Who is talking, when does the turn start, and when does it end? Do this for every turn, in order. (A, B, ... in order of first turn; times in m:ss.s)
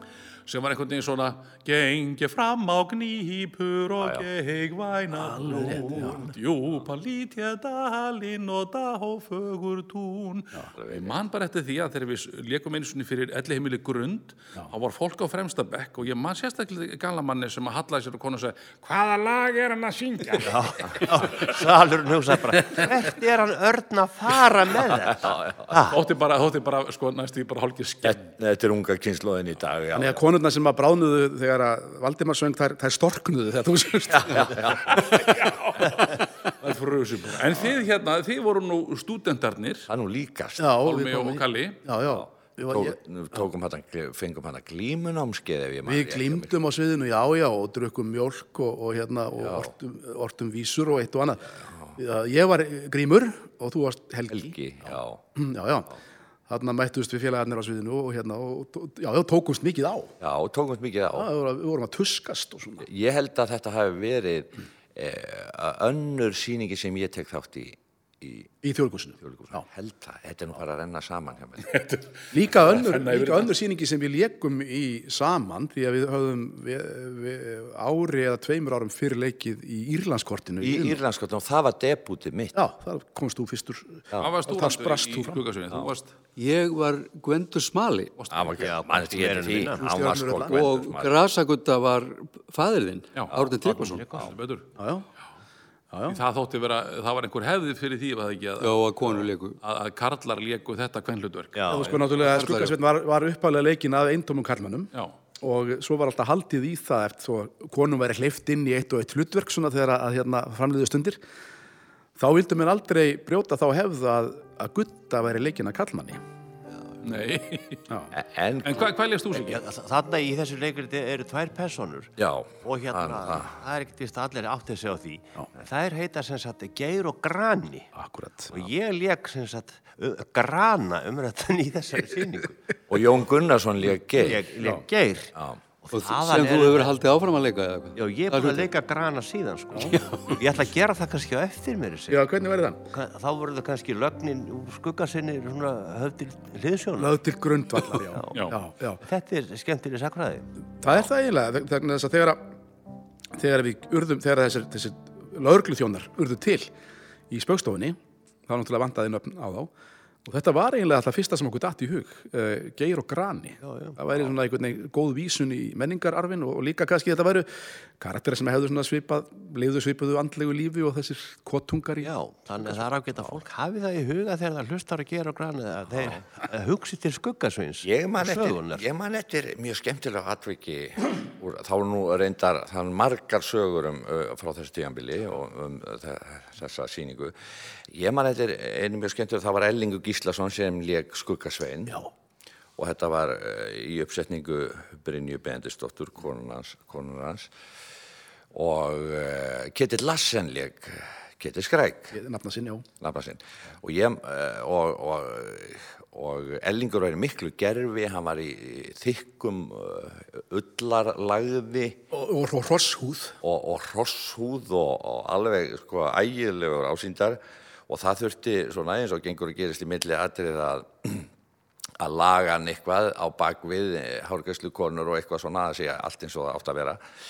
0:00.5-0:21.5 A
0:04.0-0:04.3 B
0:05.2-0:06.3 C
0:10.8-0:11.2 B
0:20.4-0:26.0 D
0:25.1-0:25.7 B
0:25.8-0:28.2 A
0:28.0-0:30.2 B
0:30.0-0:34.8 C
0:34.1-0:35.1 B
0:34.8-0:39.9 A
0:39.9-0:40.8 B
0:40.6-0:43.0 C
0:40.8-0:41.8 A
0:42.1-0:46.6 B
0:45.8-0:56.0 C
0:49.4-0:49.7 B
0:54.3-0:55.2 B
0:56.5-1:00.1 C
1:00.2-1:01.3 B
1:01.1-1:02.9 C
1:02.8-1:08.5 B
1:08.6-1:09.6 C
1:09.2-1:11.8 B
1:11.7-1:12.0 A
1:12.3-1:21.0 C
1:12.6-1:13.5 A
1:20.6-1:22.6 B
1:22.6-1:25.4 C
1:24.2-1:26.1 A
1:26.4-1:28.2 E
1:28.2-1:28.6 A
1:28.3-1:31.1 B
1:28.6-1:29.8 D
1:29.7-1:30.6 C
1:30.5-1:34.1 E
1:33.6-1:34.3 D
1:34.1-1:34.6 A
1:34.8-1:35.1 C
1:35.9-1:36.2 C
1:36.1-1:41.8 A
1:38.6-1:39.6 E
1:41.6-1:42.0 D
1:41.7-1:51.2 C
1:42.2-1:42.8 E
1:52.2-1:56.2 C
1:57.0-1:57.9 A
1:58.1-1:58.9 B
1:58.6-1:59.6 A
1:59.3-2:02.1 D
2:02.2-2:03.6 B
2:02.6-2:07.9 D
2:08.0-2:08.5 C
2:08.5-2:12.6 D
2:12.9-2:14.4 B
2:14.2-2:15.3 D
2:14.6-2:14.8 C
2:15.8-2:16.9 D
2:15.9-2:18.7 E
2:18.0-2:22.2 D
2:19.9-2:20.4 E
2:22.1-2:22.8 C
2:22.9-2:27.2 D
2:27.0-2:29.0 C
2:28.3-2:28.6 A
2:29.0-2:30.5 D
2:30.8-2:32.4 C
2:33.3-2:36.7 C
2:37.3-2:38.0 C
2:38.5-2:39.7 C
2:40.2-2:47.5 C
2:43.6-2:44.3 D
2:48.0-2:52.1 C
2:52.0-2:58.8 D
2:57.8-3:07.4 B
3:07.9-3:12.0 B
3:12.8-3:17.5 B
3:18.5-3:22.2 B
3:22.1-3:22.8 C
3:23.0-3:32.0 B
3:32.1-3:33.4 C
3:33.4-3:41.3 B
3:42.0-3:47.0 B